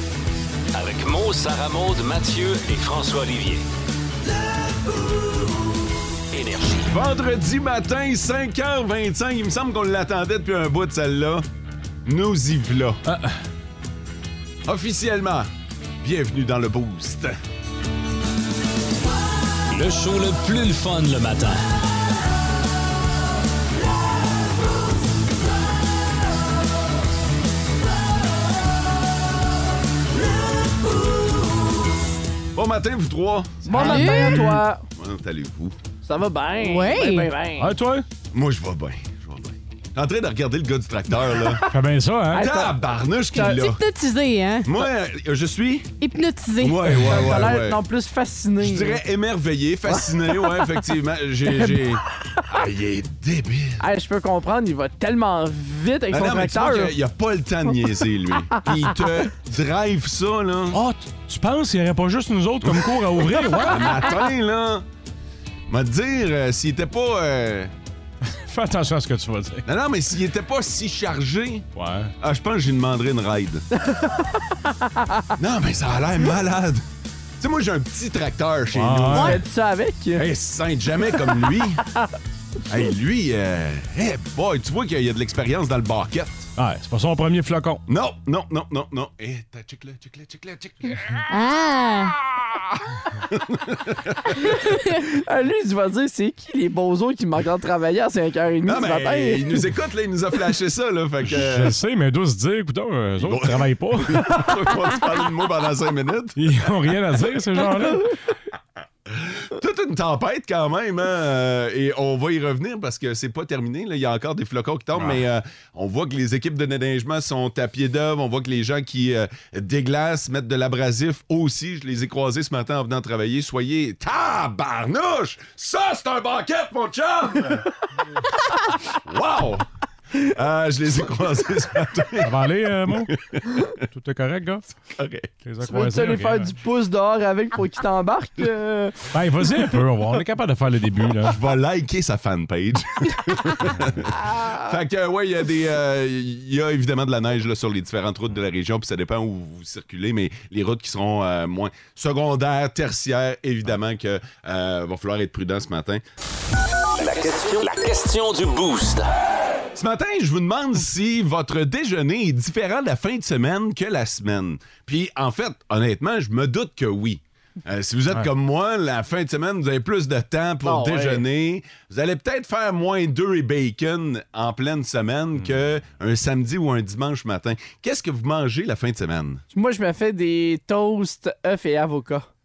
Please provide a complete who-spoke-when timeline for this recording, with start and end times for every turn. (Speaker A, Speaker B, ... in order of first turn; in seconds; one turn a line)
Speaker A: 0.7-3.6
Speaker A: 6.3-6.8
Speaker B: 6.9-11.4
Speaker B: 12.1-13.0
Speaker B: 14.6-15.5
Speaker B: 16.0-17.4
Speaker A: 19.7-21.6
Speaker B: 32.5-33.9
Speaker C: 33.6-34.8
Speaker D: 33.7-34.5
Speaker B: 34.9-35.8
Speaker C: 36.0-37.7
Speaker D: 36.6-37.3
Speaker E: 37.6-38.0
Speaker B: 38.3-41.6
Speaker E: 41.7-42.4
Speaker C: 42.3-42.8
Speaker B: 42.4-43.8
Speaker D: 43.3-44.8
Speaker B: 44.6-45.9
Speaker D: 46.0-47.0
Speaker B: 46.6-47.8
Speaker C: 47.1-49.0
Speaker B: 48.6-53.8
Speaker C: 49.9-50.7
Speaker C: 53.8-56.9
Speaker B: 56.1-60.8
Speaker E: 60.7-64.0
Speaker B: 62.6-64.8
Speaker B: 65.7-67.7
Speaker E: 68.3-69.7
Speaker B: 69.7-71.7
Speaker E: 71.8-72.1
Speaker B: 72.2-73.6
Speaker B: 75.4-76.8
Speaker B: 77.4-79.4
Speaker E: 78.7-79.3
Speaker C: 79.1-80.2
Speaker D: 79.1-79.4
Speaker B: 80.2-81.8
Speaker B: 82.7-86.5
Speaker E: 86.6-87.8
Speaker B: 87.9-91.2
Speaker D: 91.3-92.2
Speaker B: 92.3-92.8
Speaker B: 93.3-94.2
Speaker D: 94.6-95.0
Speaker C: 95.1-99.6
Speaker B: 98.6-101.8
Speaker E: 101.2-104.3
Speaker B: 103.2-106.4
Speaker E: 106.4-108.1
Speaker B: 109.1-127.6
Speaker B: 129.0-129.6
Speaker B: 130.2-132.4
Speaker E: 132.2-133.1
Speaker B: 132.9-133.7
Speaker E: 133.9-134.6
Speaker B: 134.9-135.4
Speaker E: 135.4-136.6
Speaker C: 135.7-139.0
Speaker E: 139.1-141.4
Speaker B: 141.2-156.0
Speaker A: 156.9-159.0
Speaker B: 159.7-179.4
Speaker C: 170.6-171.2
Speaker C: 179.5-182.2